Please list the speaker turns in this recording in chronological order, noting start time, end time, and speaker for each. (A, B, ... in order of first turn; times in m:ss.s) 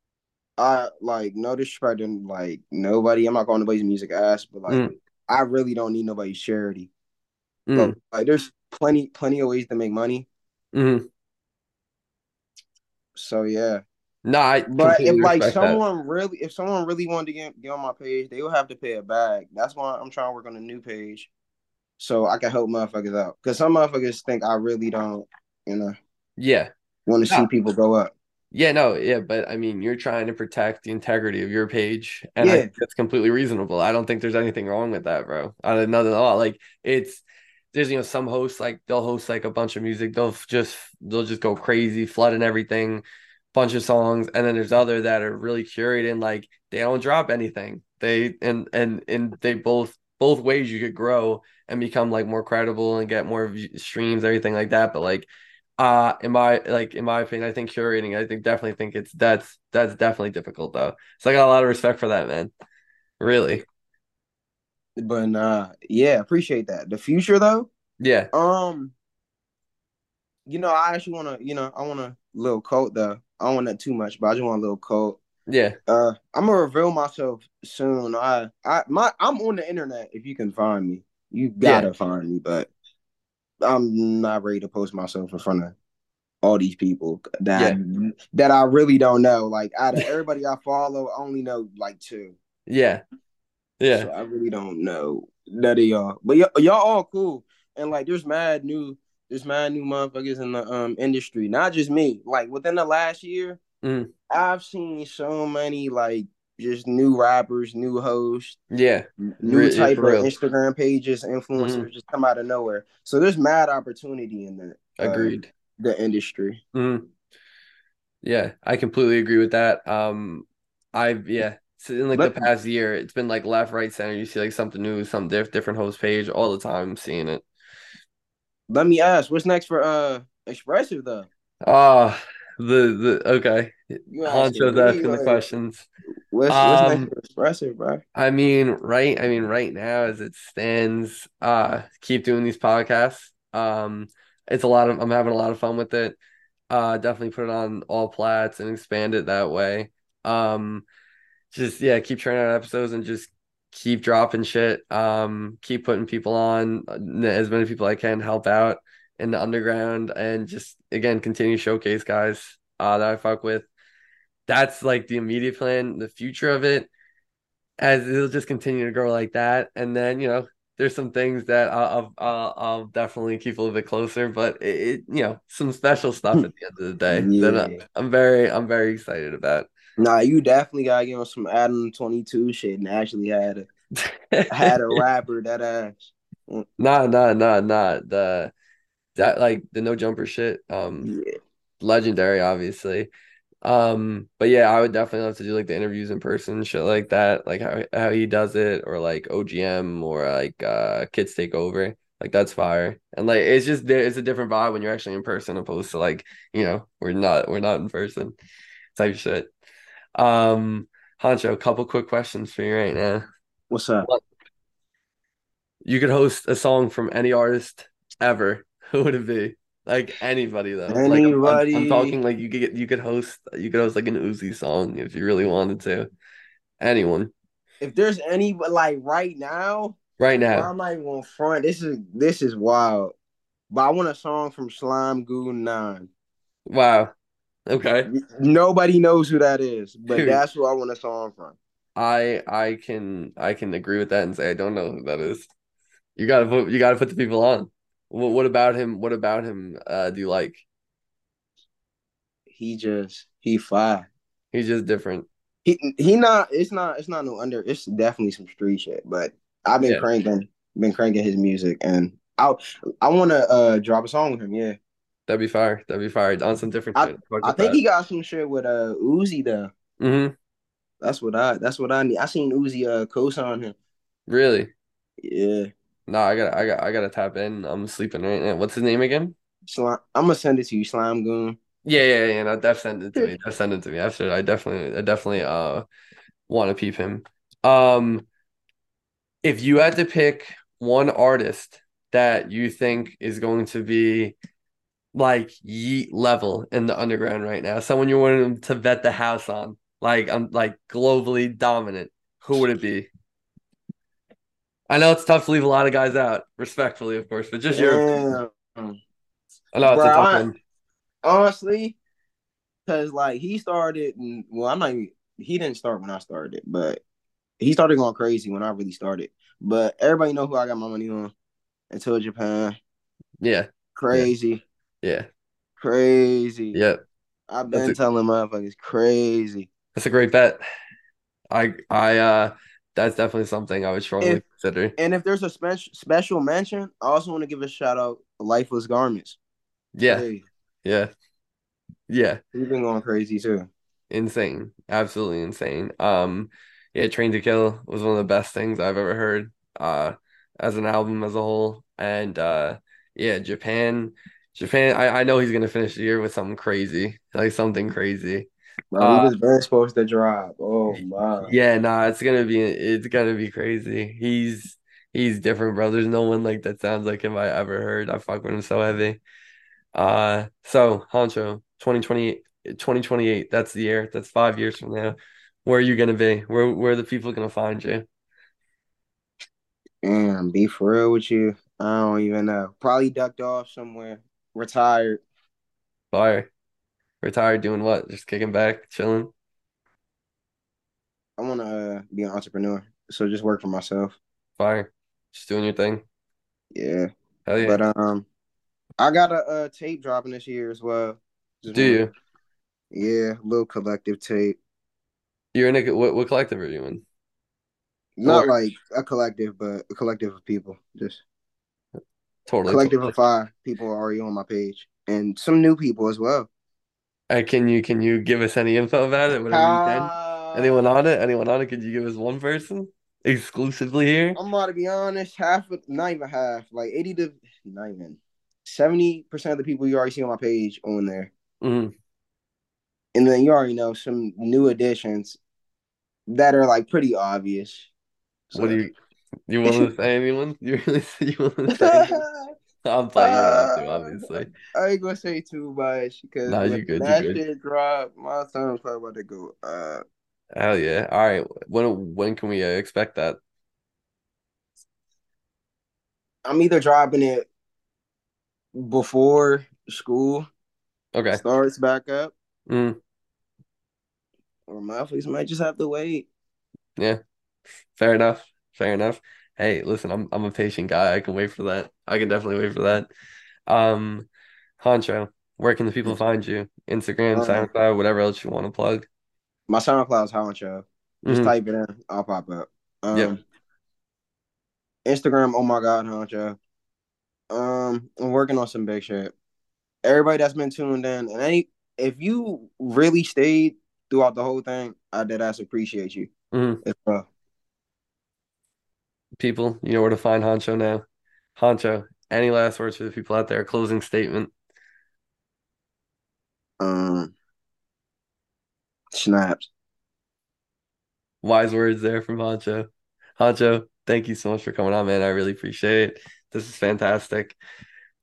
0:00.6-0:06.9 A
0:04.7-0:04.9 B
0:07.7-0:08.0 B
0:07.8-0:10.3 A
0:10.7-0:11.1 B
0:13.2-0:13.8 A
0:14.2-0:15.8 B
0:14.7-0:21.3 A
0:22.0-0:26.0 A
0:26.4-0:26.7 B
0:27.1-0:28.1 A
0:28.5-0:55.3 B
0:32.4-0:32.7 A
0:55.8-1:02.5 B
1:03.2-1:03.6 B
1:05.0-1:07.7 A
1:08.0-1:08.3 B
1:08.3-1:09.0 A
1:10.5-1:15.2 A
1:15.5-1:15.8 B
1:15.9-1:22.7 A
1:21.6-1:21.9 B
1:23.6-1:25.8 A
1:26.4-1:32.4 A
1:32.7-1:33.0 B
1:33.8-1:34.1 B
1:33.9-1:43.6 A
1:43.8-1:44.1 B
1:44.3-1:48.6 A
1:48.7-1:50.3 B
1:49.4-1:56.6 A
1:51.6-1:51.9 B
1:55.0-1:55.5 B
1:56.7-1:57.1 B
1:58.2-2:07.4 B
2:02.2-2:02.5 A
2:08.7-2:11.3 A
2:11.6-2:15.9 B
2:14.1-2:15.4 A
2:16.3-2:18.0 A
2:16.5-2:17.1 B
2:18.2-2:26.2 B
2:26.7-2:30.8 B
2:31.5-2:43.7 B
2:44.5-2:46.9 B
2:47.8-2:59.7 B
2:57.1-2:57.8 A
3:00.0-3:03.7 A
3:04.0-3:05.0 B
3:04.5-3:06.6 A
3:06.8-3:08.5 B
3:09.2-3:11.1 B
3:11.8-3:13.1 B
3:13.6-3:28.4 B
3:29.0-3:29.5 B
3:30.2-3:33.2 B
3:33.7-3:34.1 A
3:35.8-3:46.1 B
3:40.9-3:42.2 A
3:46.8-3:47.3 B
3:47.8-3:50.0 A
3:50.2-3:50.7 B
3:50.5-3:53.1 A
3:53.7-3:56.1 A
3:56.7-3:57.1 B
3:57.7-3:58.1 B
3:58.1-4:01.6 A
4:00.1-4:00.4 B
4:02.0-4:05.5 B
4:06.2-4:10.6 B
4:12.5-4:14.1 A
4:14.5-4:15.3 B
4:15.6-4:24.8 A
4:25.3-4:27.8 B
4:27.0-4:29.7 A
4:30.0-4:30.4 B
4:31.0-4:33.8 A
4:34.3-4:34.7 B
4:35.2-4:35.7 A
4:36.1-4:39.4 B
4:39.7-4:41.6 A
4:41.8-4:45.8 B
4:46.5-4:48.3 B
4:49.4-4:54.4 B
4:55.1-5:03.1 B
5:04.9-5:08.1 B
5:07.7-5:09.0 A
5:09.7-5:10.6 B
5:09.8-5:10.5 A
5:11.2-5:12.0 A
5:12.9-5:17.0 A
5:17.6-5:21.3 A
5:21.9-5:22.8 A
5:23.4-5:24.3 B
5:24.0-5:24.6 A
5:25.0-5:25.3 B
5:25.8-5:26.8 A
5:26.7-5:27.0 B
5:27.5-5:29.7 A
5:30.0-5:30.6 B
5:31.5-5:35.0 B
5:35.0-5:39.4 A
5:40.0-5:40.3 B
5:40.1-5:40.5 A
5:40.8-5:41.1 B
5:42.1-5:42.4 B
5:42.5-5:43.7 A
5:44.1-5:58.5 B
5:58.9-6:01.5 A
5:59.0-5:59.3 B
6:00.9-6:09.2 B
6:10.0-6:18.1 B
6:20.0-6:25.2 A
6:26.1-6:26.5 B
6:27.2-6:29.3 B
6:31.4-6:34.2 A
6:34.6-6:36.0 B
6:36.7-6:38.3 A
6:37.5-6:37.8 B
6:39.0-6:42.0 A
6:41.7-6:42.1 B
6:42.9-6:44.6 A
6:45.5-6:47.0 B
6:48.2-6:51.2 A
6:48.3-6:48.5 B
6:52.5-6:53.1 B
6:52.7-6:56.5 A
6:57.3-7:04.4 B
6:59.5-7:00.9 A
7:04.4-7:11.3 A
7:11.6-7:11.9 B
7:13.1-7:15.4 A
7:16.3-7:17.9 A
7:18.5-7:18.8 A
7:18.6-7:18.9 B
7:19.5-7:22.2 B
7:19.6-7:19.9 A
7:21.7-7:22.5 A
7:22.8-7:24.5 B
7:23.2-7:30.0 A
7:26.5-7:27.4 B
7:30.5-7:33.4 B
7:36.4-7:37.5 A
7:38.7-7:40.5 A
7:41.1-7:41.4 B
7:41.3-7:42.3 A
7:42.7-7:43.0 B
7:44.7-7:46.3 A
7:48.0-7:53.1 B
7:53.7-7:54.3 B
7:54.8-7:59.1 B
7:57.4-7:57.7 A
7:59.7-8:03.4 A
8:01.2-8:01.5 B
8:05.0-8:06.6 A
8:07.5-8:09.3 A
8:10.0-8:16.3 A
8:16.5-8:16.8 B
8:16.8-8:17.3 A
8:19.4-8:21.0 B
8:21.6-8:24.5 B
8:26.8-8:27.4 A
8:29.1-8:29.7 A
8:31.4-8:37.6 B